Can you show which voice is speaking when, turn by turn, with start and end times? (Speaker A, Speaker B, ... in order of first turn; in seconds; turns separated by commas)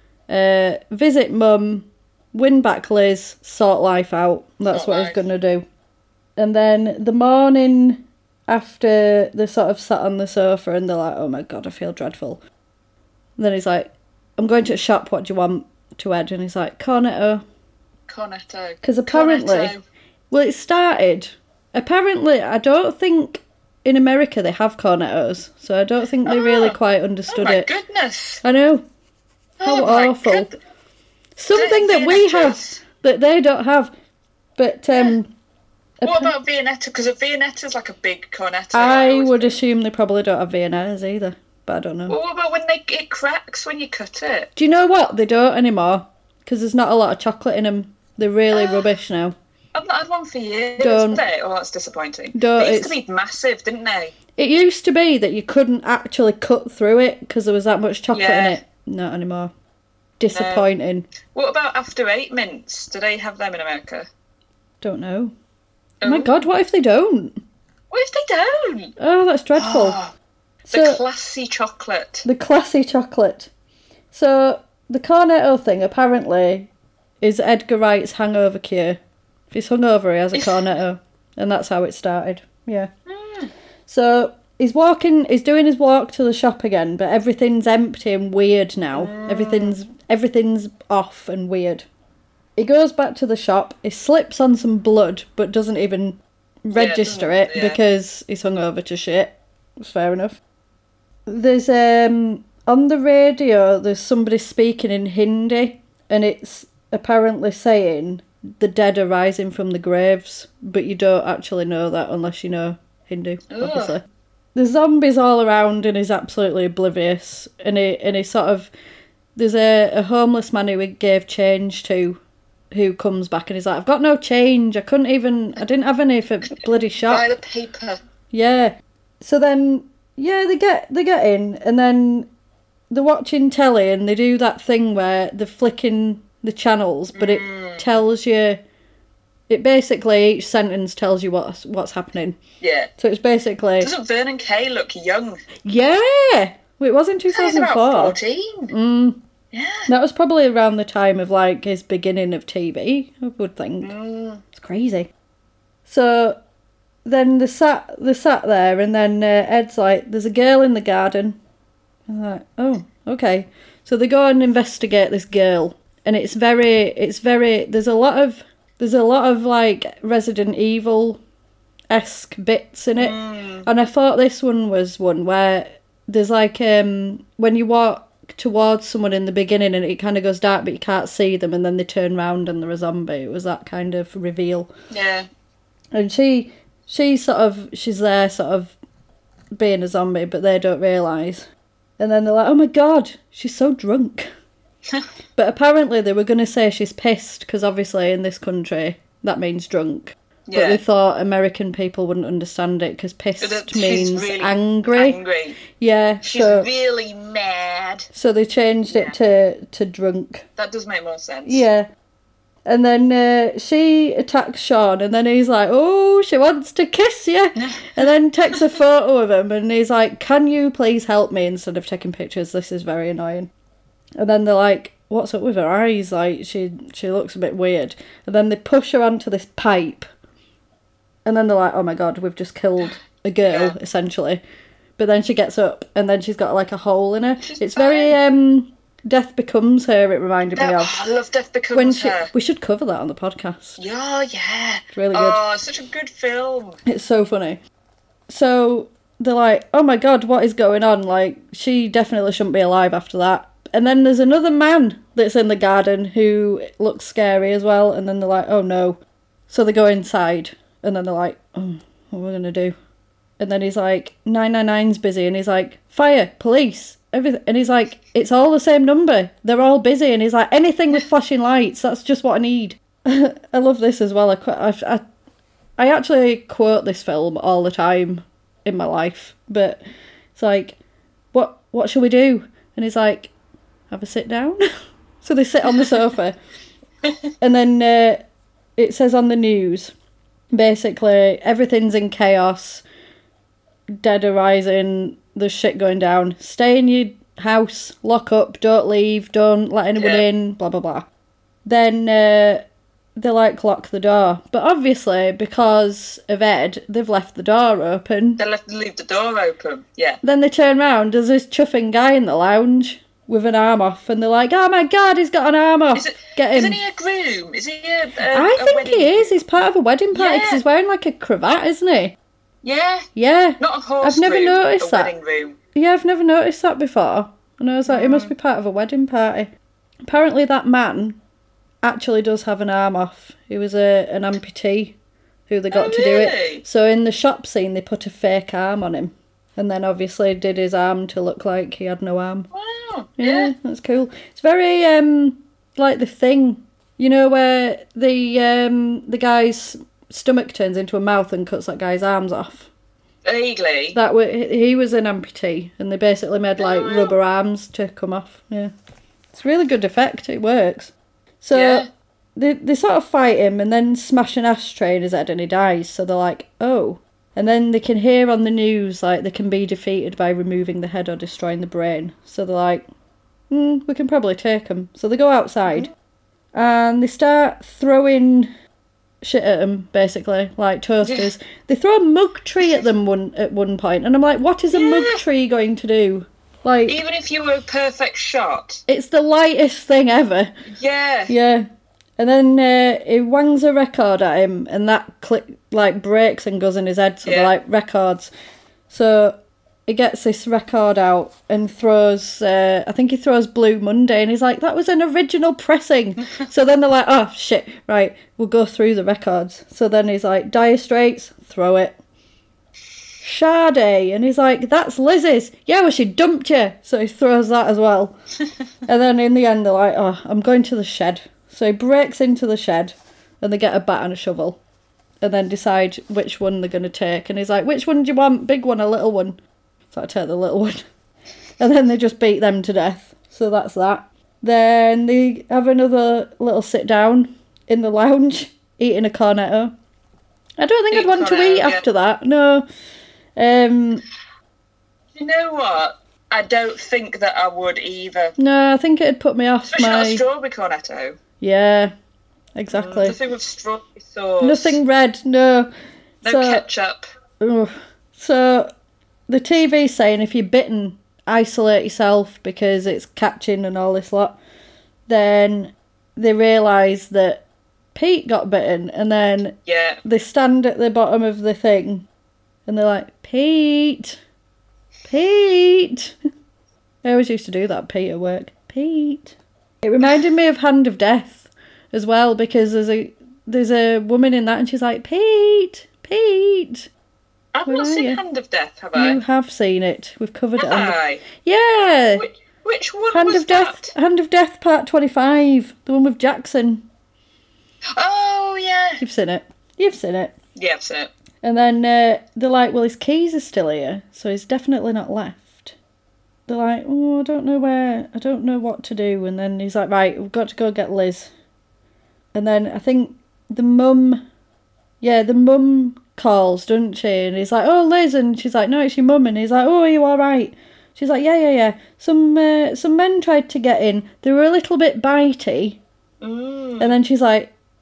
Speaker A: 0.3-5.6, Speaker B: 4.7-5.2, Speaker A: 6.4-12.4, Speaker A: 13.4-17.4, Speaker B: 18.1-19.8, Speaker A: 18.8-19.7, Speaker A: 20.3-27.7, Speaker B: 26.2-26.8, Speaker B: 27.3-28.4, Speaker A: 28.4-28.8, Speaker B: 29.6-30.6, Speaker A: 29.6-30.5, Speaker A: 31.4-33.9, Speaker B: 31.5-32.8, Speaker A: 34.6-35.3, Speaker A: 36.0-36.3, Speaker B: 36.0-39.6, Speaker A: 38.7-42.1, Speaker B: 42.1-44.5, Speaker A: 44.5-49.3, Speaker B: 48.5-48.9, Speaker B: 49.7-54.1, Speaker A: 50.8-51.2, Speaker A: 52.3-53.0, Speaker A: 54.4-59.5, Speaker B: 58.1-58.6, Speaker A: 60.2-61.1, Speaker B: 60.3-60.7, Speaker B: 61.2-64.1, Speaker A: 64.8-65.3, Speaker B: 66.0-66.4, Speaker A: 66.0-67.4, Speaker B: 67.9-68.9, Speaker A: 69.0-70.0, Speaker B: 69.5-70.1, Speaker A: 70.7-71.0, Speaker B: 70.7-72.2, Speaker A: 72.2-73.5, Speaker A: 74.1-76.7, Speaker A: 77.2-79.0, Speaker A: 79.5-82.9, Speaker B: 80.3-80.6, Speaker B: 83.1-83.5, Speaker A: 83.9-91.8, Speaker B: 88.9-89.8, Speaker A: 92.5-100.4, Speaker B: 96.7-97.8, Speaker A: 101.3-114.0, Speaker B: 113.5-114.0, Speaker A: 114.5-118.7, Speaker A: 119.3-122.2, Speaker A: 122.7-127.3, Speaker B: 127.0-128.0, Speaker A: 128.3-132.3, Speaker A: 132.9-138.6, Speaker B: 137.1-137.9, Speaker A: 139.5-142.4, Speaker B: 142.6-142.9, Speaker A: 143.0-143.9, Speaker B: 143.8-145.4, Speaker A: 145.6-148.2, Speaker B: 147.3-148.7, Speaker A: 148.7-149.2, Speaker B: 149.5-149.9, Speaker A: 149.9-153.9, Speaker B: 153.8-154.4, Speaker A: 154.5-155.1, Speaker A: 155.8-156.4, Speaker A: 157.0-161.4, Speaker A: 162.1-171.2, Speaker A: 171.9-184.7, Speaker B: 173.0-173.7, Speaker B: 184.9-185.3, Speaker A: 185.9-188.7, Speaker A: 189.5-191.5, Speaker A: 192.0-194.3, Speaker A: 195.3-205.2, Speaker B: 200.5-200.8, Speaker B: 203.4-205.6, Speaker A: 205.7-206.7, Speaker B: 206.2-208.1, Speaker A: 208.1-210.4, Speaker B: 208.9-209.2, Speaker B: 210.6-211.6, Speaker A: 211.4-211.9, Speaker A: 212.7-223.5, Speaker B: 217.6-218.6, Speaker A: 224.2-230.1, Speaker A: 231.2-234.4, Speaker B: 233.5-233.8, Speaker A: 235.0-241.0, Speaker B: 237.4-238.2, Speaker B: 240.6-242.3, Speaker A: 241.7-243.8, Speaker B: 243.8-246.8, Speaker A: 244.9-245.4, Speaker A: 246.8-247.6, Speaker A: 248.3-262.7, Speaker A: 263.4-275.0, Speaker A: 275.8-279.8, Speaker A: 280.4-280.8, Speaker A: 281.3-283.3, Speaker A: 283.9-284.6, Speaker A: 285.2-286.4, Speaker A: 287.4-288.2, Speaker A: 288.8-289.9, Speaker A: 290.5-292.8, Speaker A: 294.0-301.1, Speaker B: 299.9-300.2, Speaker A: 301.6-308.4, Speaker B: 308.4-310.2, Speaker A: 310.2-316.8, Speaker B: 315.9-319.5, Speaker A: 318.3-322.1, Speaker B: 320.1-320.6, Speaker B: 322.6-323.1, Speaker A: 323.1-325.1, Speaker B: 323.6-325.6, Speaker A: 325.7-329.5, Speaker B: 327.9-328.3, Speaker A: 330.0-331.2, Speaker A: 331.8-334.9, Speaker A: 335.5-342.5, Speaker B: 335.7-336.6, Speaker B: 342.5-343.5, Speaker A: 343.2-352.7, Speaker B: 353.2-354.0, Speaker A: 353.9-358.7, Speaker B: 356.6-357.1, Speaker A: 359.3-372.9, Speaker B: 361.5-361.9, Speaker A: 373.5-375.9, Speaker A: 376.5-378.5, Speaker A: 379.2-387.0, Speaker B: 381.0-381.3, Speaker B: 384.7-385.2, Speaker B: 386.9-388.8, Speaker A: 388.9-390.5, Speaker B: 390.7-391.3, Speaker A: 391.3-391.7, Speaker A: 392.2-398.3, Speaker B: 397.2-397.5, Speaker A: 398.9-411.9, Speaker A: 413.2-418.1, Speaker A: 418.9-424.6, Speaker A: 425.2-429.4, Speaker A: 429.9-430.8, Speaker A: 431.6-439.7, Speaker A: 440.6-442.6, Speaker B: 440.9-441.8, Speaker A: 443.4-444.0, Speaker B: 445.1-448.3, Speaker A: 448.4-450.2, Speaker B: 449.7-451.2, Speaker A: 451.4-451.9, Speaker A: 452.5-453.1, Speaker B: 452.7-454.8, Speaker A: 454.4-455.7, Speaker A: 456.2-456.6, Speaker B: 456.2-457.0, Speaker A: 457.4-458.7, Speaker A: 459.3-464.4, Speaker A: 465.1-467.4, Speaker A: 467.9-472.1, Speaker B: 469.6-470.0, Speaker A: 472.7-474.2, Speaker A: 475.1-476.1, Speaker A: 477.0-486.9, Speaker B: 487.5-489.2, Speaker A: 487.6-488.2, Speaker A: 488.9-492.2, Speaker B: 490.6-491.2, Speaker B: 492.1-493.9, Speaker A: 493.1-496.8, Speaker B: 497.9-499.0, Speaker A: 499.0-500.3, Speaker B: 500.6-501.1, Speaker A: 501.4-505.7, Speaker A: 506.5-511.3, Speaker A: 512.3-514.2, Speaker A: 515.0-525.8, Speaker B: 526.2-526.9, Speaker A: 526.8-527.5